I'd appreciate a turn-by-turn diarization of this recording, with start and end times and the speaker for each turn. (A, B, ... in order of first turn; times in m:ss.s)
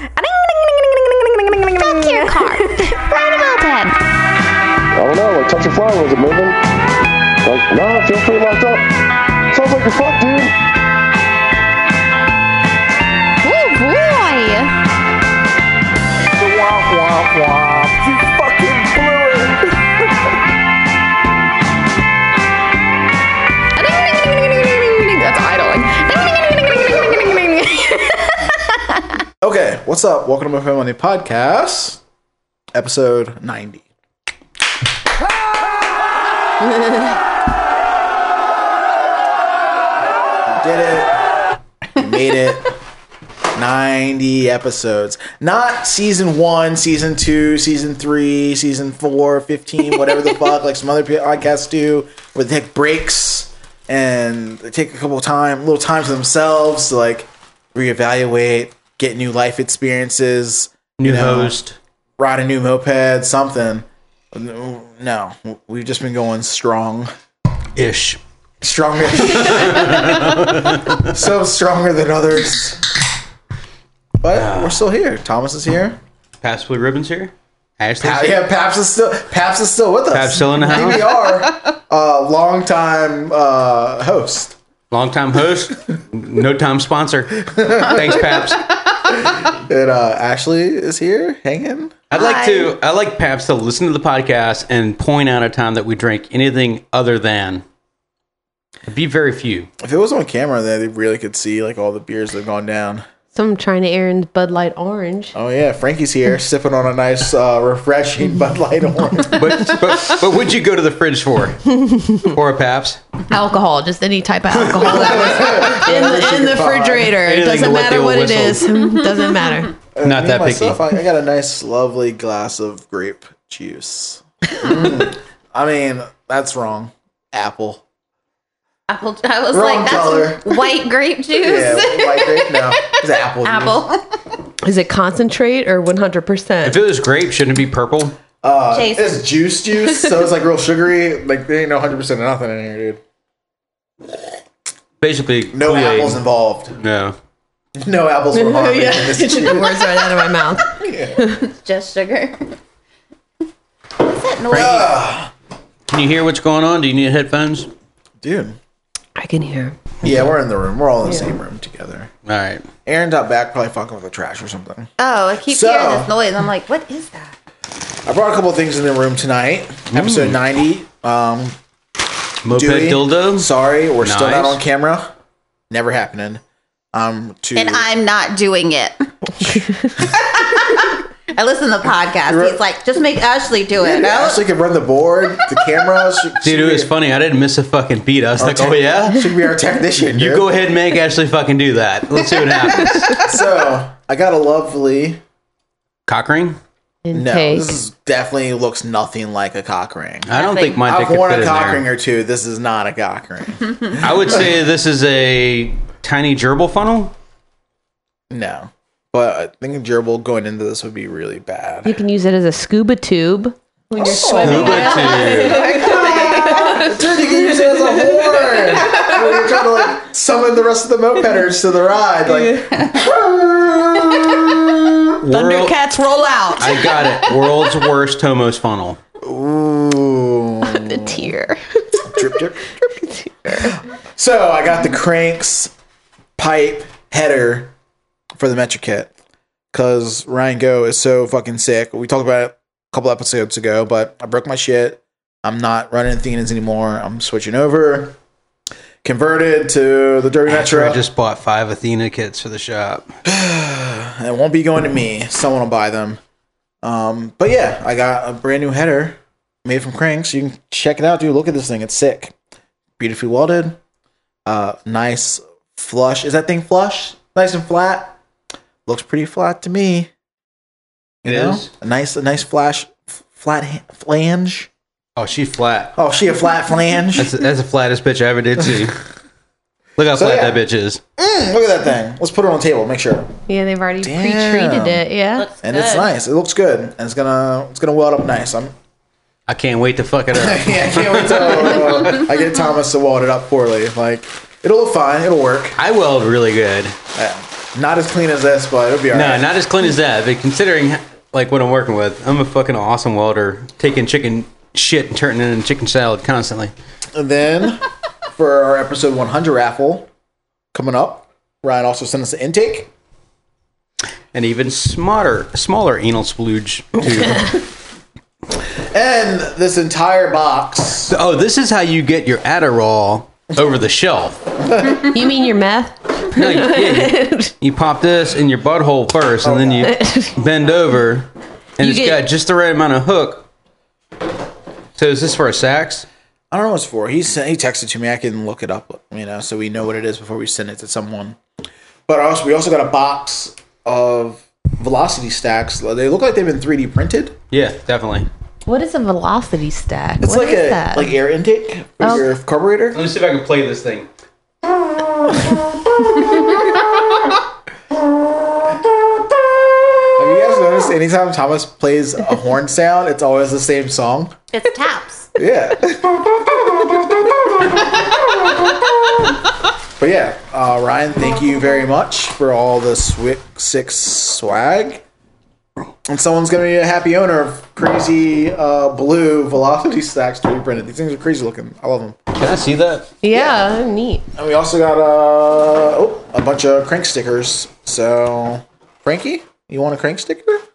0:00.2-0:04.0 A
0:05.0-0:06.6 B
0:07.4-0:08.9 B
0:09.5-0:10.5 B
0:13.4-0:14.7 A
0:16.3-0:19.8 C
0:23.8-0:27.7 A
0:29.4-0:32.0 C
0:32.7-0:33.8 C
0:40.5-0:41.1 C
0:41.9-0:42.8 C
0:43.5-1:01.6 C
1:01.0-1:01.8 D
1:02.2-1:07.1 C
1:07.8-1:08.2 D
1:08.6-1:13.0 C
1:09.2-1:11.1 D
1:14.2-1:16.0 C
1:14.3-1:14.8 D
1:16.4-1:18.4 D
1:18.0-1:24.6 C
1:20.1-1:21.2 D
1:24.9-1:28.7 D
1:27.5-1:28.6 C
1:29.2-1:32.0 C
1:32.1-1:37.6 D
1:32.1-1:32.7 A
1:38.9-1:39.7 D
1:39.8-1:43.0 C
1:43.3-1:45.3 E
1:45.3-1:49.8 C
1:49.3-1:53.0 D
1:51.8-1:52.2 E
1:53.3-1:59.7 E
1:54.6-1:57.2 C
1:57.2-1:58.7 D
1:59.9-2:07.8 C
2:00.0-2:00.8 D
2:08.9-2:14.0 A
2:09.5-2:10.6 C
2:11.4-2:13.8 C
2:14.6-2:16.8 E
2:16.6-2:18.2 D
2:18.4-2:23.0 C
2:18.7-2:19.2 A
2:25.0-2:26.2 D
2:25.5-2:26.8 C
2:26.8-2:27.2 D
2:27.8-2:29.9 C
2:28.4-2:31.4 E
2:30.6-2:31.2 C
2:31.4-2:32.6 A
2:34.0-2:34.9 A
2:34.5-2:35.3 C
2:35.9-2:37.7 D
2:38.2-2:38.6 C
2:39.2-2:39.8 E
2:40.0-2:42.1 C
2:42.2-2:42.6 D
2:42.8-2:44.9 C
2:45.0-2:47.3 A
2:45.5-2:46.1 C
2:48.1-2:51.5 C
2:49.9-2:50.4 D
2:52.4-2:53.5 D
2:52.5-2:55.1 C
2:54.0-2:54.6 D
2:55.7-2:56.4 C
2:56.9-2:57.9 C
2:57.5-2:59.1 A
3:00.0-3:04.4 A
3:02.2-3:02.6 C
3:03.8-3:06.9 C
3:06.4-3:09.2 D
3:08.4-3:10.5 C
3:10.1-3:13.2 D
3:13.2-3:15.2 C
3:16.1-3:16.6 D
3:17.0-3:17.7 E
3:17.1-3:24.4 C
3:20.3-3:21.8 D
3:20.4-3:20.8 A
3:24.0-3:27.1 D
3:28.3-3:32.0 C
3:31.8-3:39.2 E
3:33.9-3:45.0 C
3:34.4-3:35.6 D
3:35.1-3:36.8 A
3:45.2-3:45.8 D
3:45.3-3:47.5 E
3:46.6-3:49.0 D
3:49.2-3:51.3 C
3:50.6-3:52.0 E
3:52.0-3:52.8 C
3:53.0-3:53.8 E
3:53.5-3:55.7 C
3:56.4-3:57.7 C
3:58.4-3:59.1 C
3:59.7-4:08.2 C
4:09.0-4:11.0 C
4:10.5-4:13.1 D
4:13.3-4:16.2 C
4:16.8-4:22.3 C
4:23.0-4:23.8 C
4:24.5-4:28.2 C
4:28.9-4:30.1 C
4:31.2-4:34.7 C
4:31.2-4:31.7 D
4:35.2-4:35.9 D
4:36.0-4:37.3 C
4:37.2-4:39.0 D
4:40.0-4:41.0 D
4:40.1-4:40.6 C
4:41.2-4:43.3 C
4:43.5-4:45.5 E
4:44.0-4:45.1 C
4:45.4-4:46.1 A
4:45.6-4:48.7 C
4:49.5-4:52.2 D
4:50.3-4:55.8 C
4:55.8-4:57.0 D
4:57.2-4:59.5 C
4:59.1-5:06.7 D
5:07.2-5:10.1 C
5:10.7-5:12.9 C
5:14.3-5:17.6 D
5:18.9-5:21.2 C
5:21.1-5:24.4 D
5:25.0-5:27.5 E
5:26.4-5:33.5 D
5:29.4-5:29.9 C
5:29.8-5:30.3 E
5:31.8-5:32.2 E
5:35.0-5:36.1 D
5:36.5-5:41.4 C
5:42.1-5:47.4 C
5:47.5-5:48.3 D
5:48.7-5:51.2 E
5:50.2-5:53.0 C
5:52.9-5:54.1 D
5:55.0-5:57.2 C
6:00.1-6:04.4 C
6:04.5-6:05.3 A
6:05.4-6:09.3 C
6:10.0-6:15.0 C
6:16.1-6:22.2 C
6:22.3-6:23.1 D
6:23.2-6:24.2 E
6:23.3-6:23.6 C
6:24.4-6:30.6 C